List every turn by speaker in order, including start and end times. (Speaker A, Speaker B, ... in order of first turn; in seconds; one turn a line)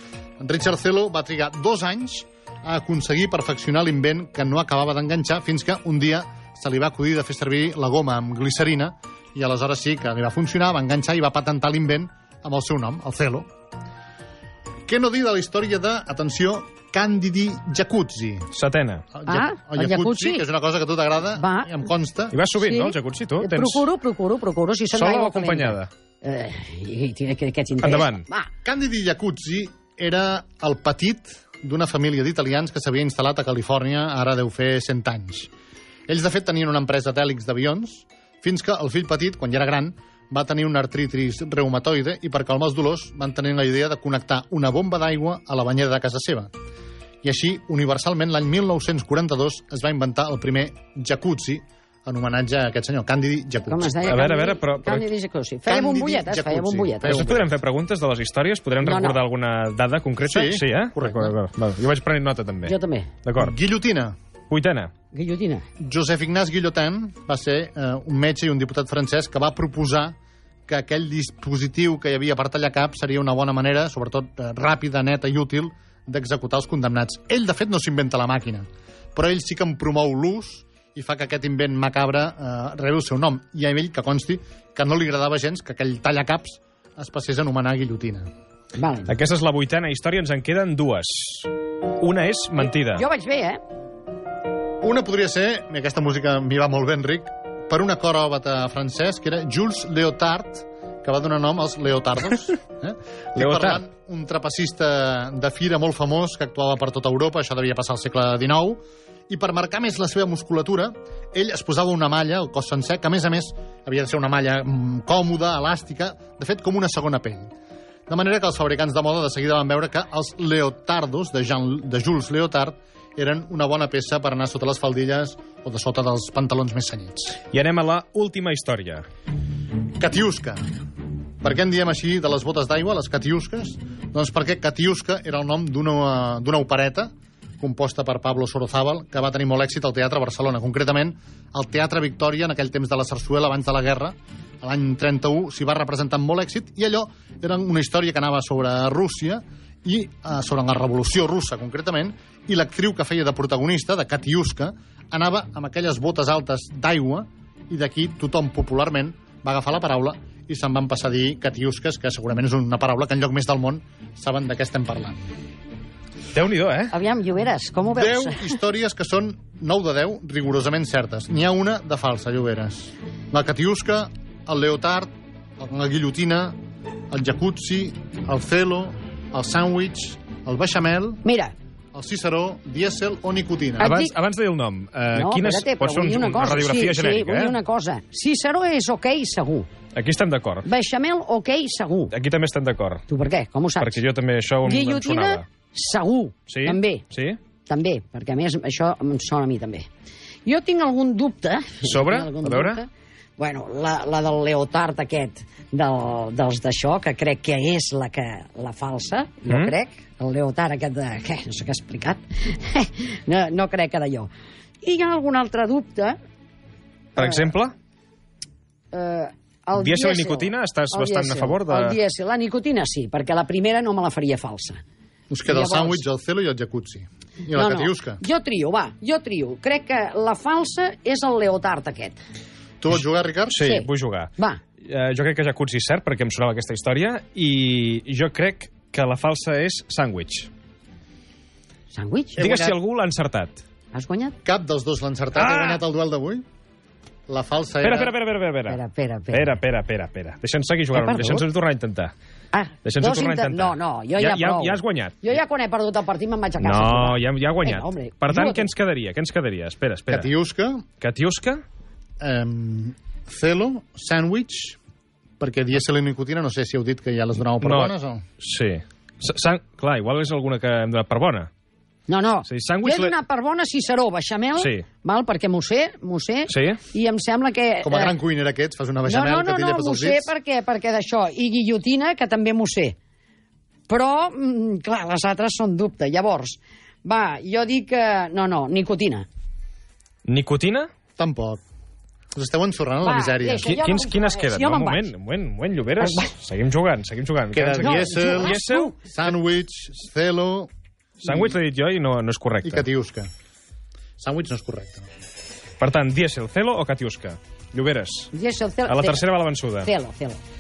Speaker A: 0.4-13.5
Speaker A: 14.9-18.5
Speaker B: 18.5-19.1
Speaker A: 19.1-22.4
Speaker C: 19.2-20.4
Speaker C: 21.4-21.8
Speaker B: 22.3-23.9
Speaker C: 22.6-28.5
Speaker B: 24.9-25.9
Speaker B: 27.8-28.2
Speaker A: 28.6-35.5
Speaker A: 36.1-46.5
Speaker A: 47.2-54.1
Speaker C: 53.7-57.3
Speaker B: 54.1-55.1
Speaker A: 55.6-57.5
Speaker B: 57.0-62.7
Speaker C: 58.8-59.2
Speaker A: 60.2-61.3
Speaker C: 62.6-63.1
Speaker B: 63.2-63.6
Speaker A: 63.4-64.1
Speaker B: 64.5-64.9
Speaker C: 65.1-65.6
Speaker A: 65.8-70.2
Speaker A: 70.7-88.3
Speaker C: 88.8-89.1
Speaker B: 89.1-93.0
Speaker C: 92.7-93.6
Speaker A: 94.8-117.5
Speaker B: 103.4-103.8
Speaker A: 118.1-127.4
Speaker B: 127.5-129.1
Speaker A: 130.0-130.6
Speaker A: 131.4-165.2
Speaker B: 166.3-166.9
Speaker C: 166.9-168.6
Speaker A: 167.9-176.6
Speaker A: 177.1-181.2
Speaker C: 181.2-181.5
Speaker A: 181.9-183.9
Speaker C: 183.8-184.1
Speaker B: 183.8-187.6
Speaker C: 185.1-189.7
Speaker B: 189.9-190.7
Speaker C: 190.6-192.1
Speaker B: 192.1-193.0
Speaker C: 193.1-194.0
Speaker B: 193.8-195.4
Speaker C: 194.6-197.0
Speaker B: 196.5-197.4
Speaker C: 197.7-199.9
Speaker C: 200.5-214.3
Speaker B: 201.8-202.8
Speaker B: 209.5-209.7
Speaker C: 214.8-216.2
Speaker B: 217.2-217.7
Speaker C: 217.2-217.5
Speaker C: 218.9-224.8
Speaker B: 219.8-222.0
Speaker A: 225.3-228.2
Speaker C: 225.5-226.0
Speaker C: 227.5-232.2
Speaker A: 232.8-233.7
Speaker B: 233.5-234.3
Speaker C: 233.6-234.6
Speaker B: 234.8-240.5
Speaker C: 241.9-242.4
Speaker A: 242.4-242.8
Speaker B: 242.4-243.6
Speaker C: 243.9-244.4
Speaker A: 244.4-246.4
Speaker B: 245.3-245.8
Speaker A: 247.3-248.1
Speaker B: 247.8-248.8
Speaker C: 248.7-249.6
Speaker B: 249.3-252.1
Speaker C: 250.9-251.5
Speaker C: 252.5-258.7
Speaker B: 252.8-255.3
Speaker B: 256.6-260.3
Speaker A: 260.1-260.9
Speaker B: 261.0-261.6
Speaker A: 262.2-264.8
Speaker A: 265.4-268.2
Speaker B: 267.6-271.5
Speaker C: 272.1-278.1
Speaker B: 272.5-273.1
Speaker B: 274.6-274.9
Speaker B: 276.5-276.8
Speaker A: 277.8-280.3
Speaker C: 279.0-283.0
Speaker C: 283.9-289.2
Speaker B: 290.2-290.9
Speaker A: 291.2-291.6
Speaker A: 292.3-293.8
Speaker C: 293.0-295.1
Speaker B: 293.6-298.9
Speaker C: 296.0-296.3
Speaker A: 297.5-300.7
Speaker C: 297.8-298.9
Speaker B: 301.2-302.9
Speaker A: 301.2-301.5
Speaker A: 302.6-303.3
Speaker A: 304.2-305.1
Speaker B: 305.8-308.3
Speaker C: 308.3-309.2
Speaker B: 308.9-309.9
Speaker C: 309.8-310.4